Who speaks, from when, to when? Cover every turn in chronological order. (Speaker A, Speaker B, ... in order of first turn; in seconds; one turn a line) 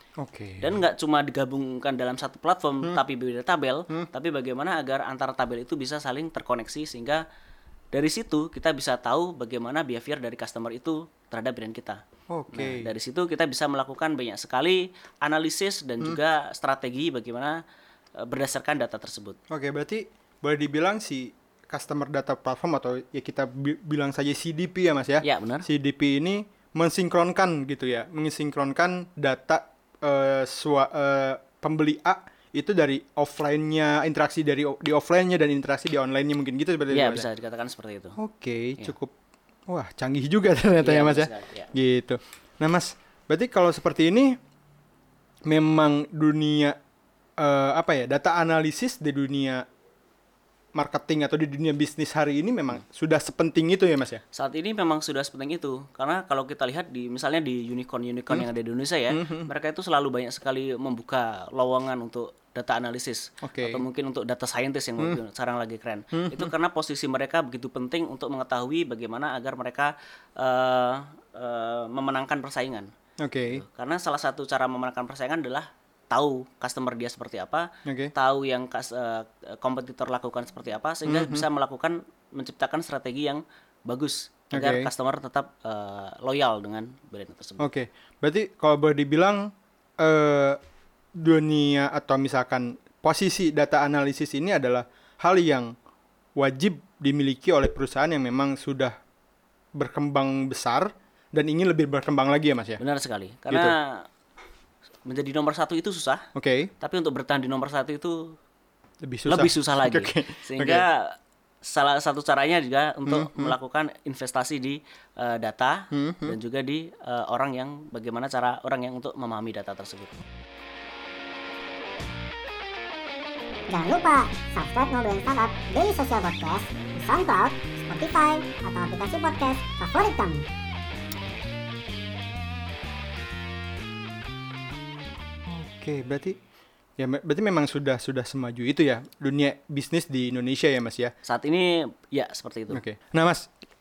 Speaker A: 0.2-0.8
Speaker B: 0.6-7.2
Speaker B: 7.9-12.0
Speaker A: 12.3-12.9
Speaker B: 12.5-17.6
Speaker B: 18.2-19.4
Speaker A: 19.5-37.3
Speaker B: 25.2-25.6
Speaker B: 36.9-38.2
Speaker A: 38.2-39.1
Speaker A: 39.7-44.4
Speaker B: 40.8-41.7
Speaker A: 45.5-46.8
Speaker A: 47.4-49.6
Speaker A: 50.7-54.2
Speaker B: 54.3-72.9
Speaker A: 59.1-59.5
Speaker A: 63.4-63.8
Speaker A: 66.1-66.5
Speaker A: 73.2-73.6
Speaker B: 73.4-87.7
Speaker A: 77.8-78.1
Speaker A: 81.0-81.5
Speaker A: 84.5-84.9
Speaker A: 87.6-89.4
Speaker A: 90.0-90.6
Speaker A: 91.2-95.7
Speaker A: 96.4-98.9
Speaker A: 99.8-102.8
Speaker B: 102.8-104.0
Speaker A: 103.5-103.8
Speaker B: 105.0-106.2
Speaker A: 106.3-106.7
Speaker B: 106.8-108.2
Speaker A: 109.0-110.8
Speaker B: 109.3-120.2
Speaker A: 113.0-113.5
Speaker A: 115.9-116.4
Speaker C: 123.7-130.4
Speaker A: 135.5-136.3
Speaker A: 137.0-141.1
Speaker B: 141.2-142.8
Speaker A: 142.7-143.4